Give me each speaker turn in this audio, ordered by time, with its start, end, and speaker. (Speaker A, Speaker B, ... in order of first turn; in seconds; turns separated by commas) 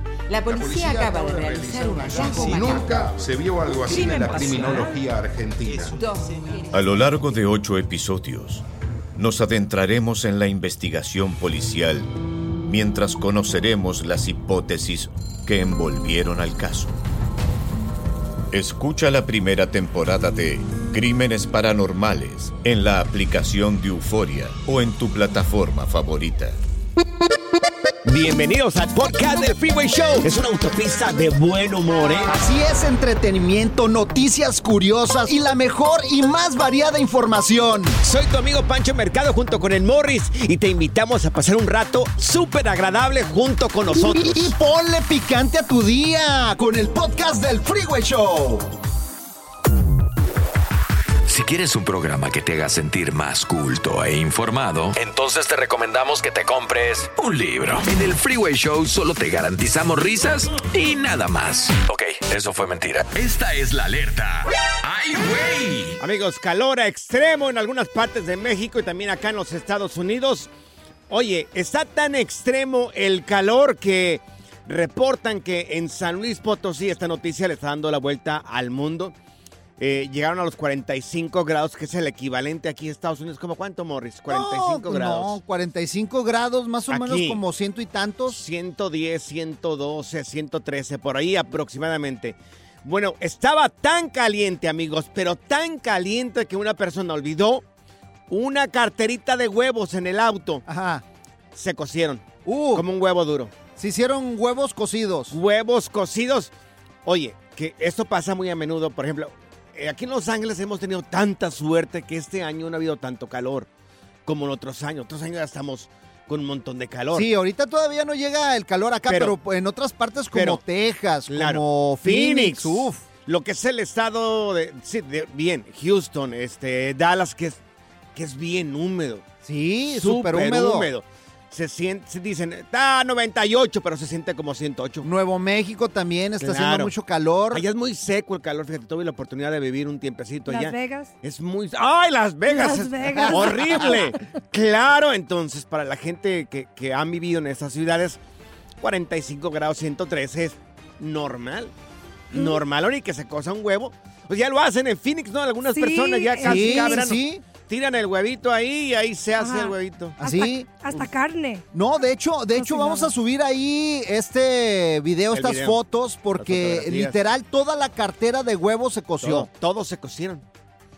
Speaker A: 0.3-3.1, Speaker B: 0.4-6.0, Speaker A: 3.7-5.0, Speaker A: 5.6-6.8, Speaker C: 6.7-8.6, Speaker C: 9.2-12.1, Speaker C: 12.6-16.9, Speaker C: 18.5-26.6, Speaker D: 28.0-32.3, Speaker E: 32.2-38.0, Speaker D: 38.0-44.5, Speaker E: 43.9-48.7, Speaker F: 51.3-66.0, Speaker D: 66.0-70.5, Speaker D: 71.1-79.2, Speaker D: 79.8-85.4, Speaker E: 84.3-88.4, Speaker D: 86.9-87.4, Speaker D: 88.3-97.7, Speaker D: 98.3-100.6, Speaker E: 100.7-101.0, Speaker D: 101.5-103.5, Speaker E: 102.5-102.8, Speaker E: 103.8-105.4, Speaker D: 105.3-106.5, Speaker D: 107.0-113.7, Speaker D: 114.3-117.3, Speaker E: 117.1-123.0, Speaker D: 119.1-119.3, Speaker D: 120.3-120.6, Speaker D: 121.3-127.6, Speaker D: 128.2-129.2, Speaker E: 129.4-130.9, Speaker D: 129.9-135.1, Speaker E: 135.0-137.7, Speaker D: 136.4-136.9, Speaker D: 137.5-148.2, Speaker G: 140.5-141.1, Speaker G: 142.5-144.2, Speaker E: 143.1-143.6, Speaker D: 148.8-151.7, Speaker D: 152.3-160.2, Speaker G: 152.3-152.6, Speaker G: 155.7-157.1, Speaker E: 156.4-157.4, Speaker G: 159.4-161.7, Speaker E: 160.2-160.9, Speaker E: 161.7-169.5, Speaker G: 162.6-163.1, Speaker D: 165.3-165.8, Speaker D: 166.4-167.2, Speaker D: 169.2-170.4